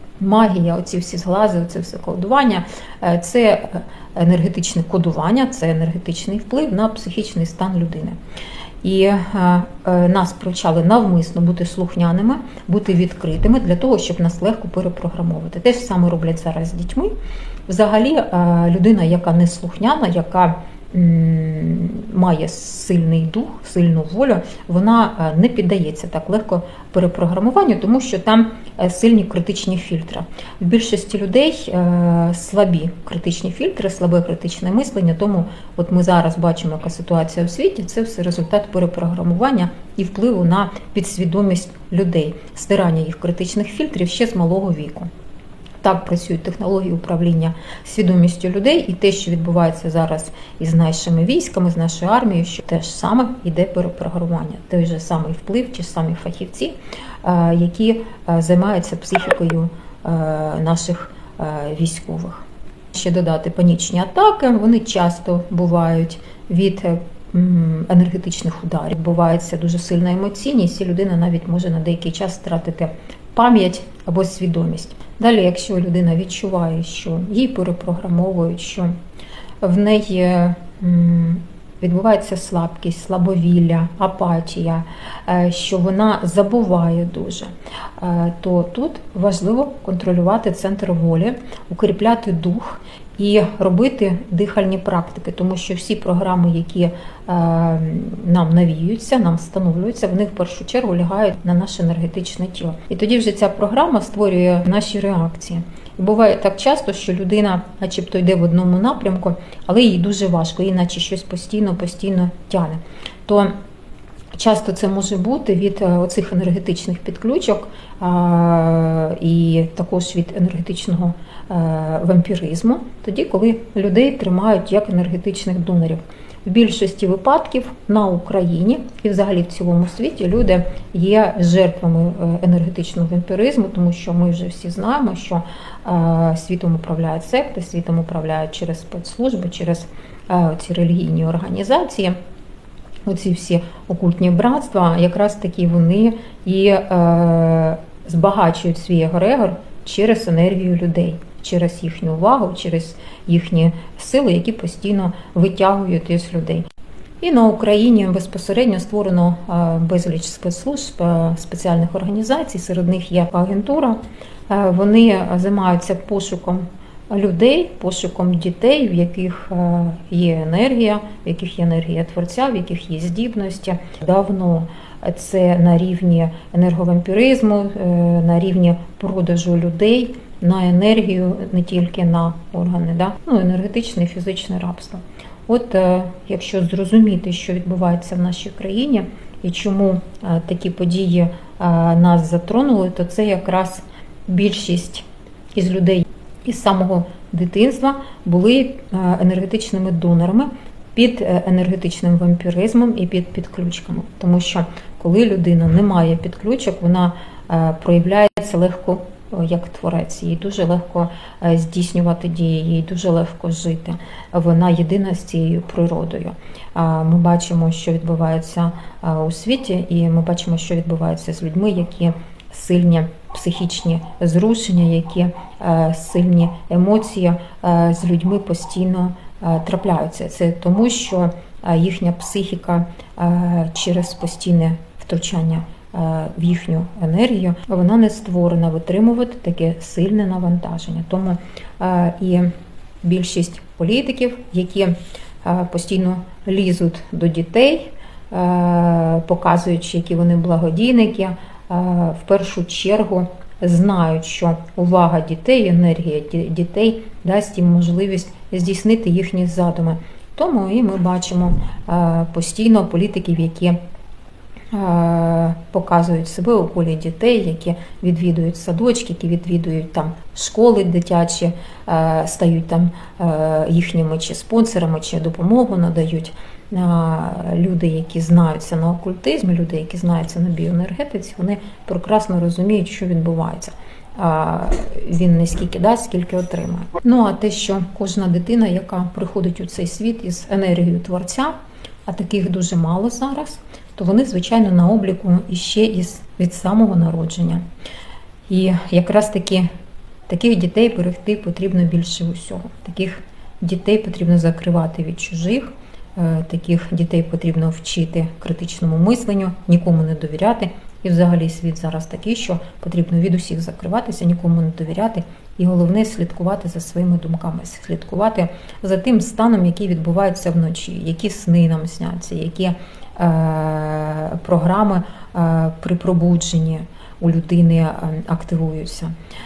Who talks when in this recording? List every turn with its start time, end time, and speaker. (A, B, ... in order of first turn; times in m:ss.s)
0:00.2-0:08.2 A
0:08.8-0:17.1 A
0:17.7-0:45.1 A
0:45.8-1:18.9 A
1:19.6-1:53.5 A
1:54.3-2:22.2 A
2:23.0-2:36.6 A
2:37.2-4:02.5 A
4:03.0-4:23.8 A
4:24.7-4:51.5 A
4:52.0-4:57.6 A
4:58.5-4:59.7 A
5:00.3-5:29.1 A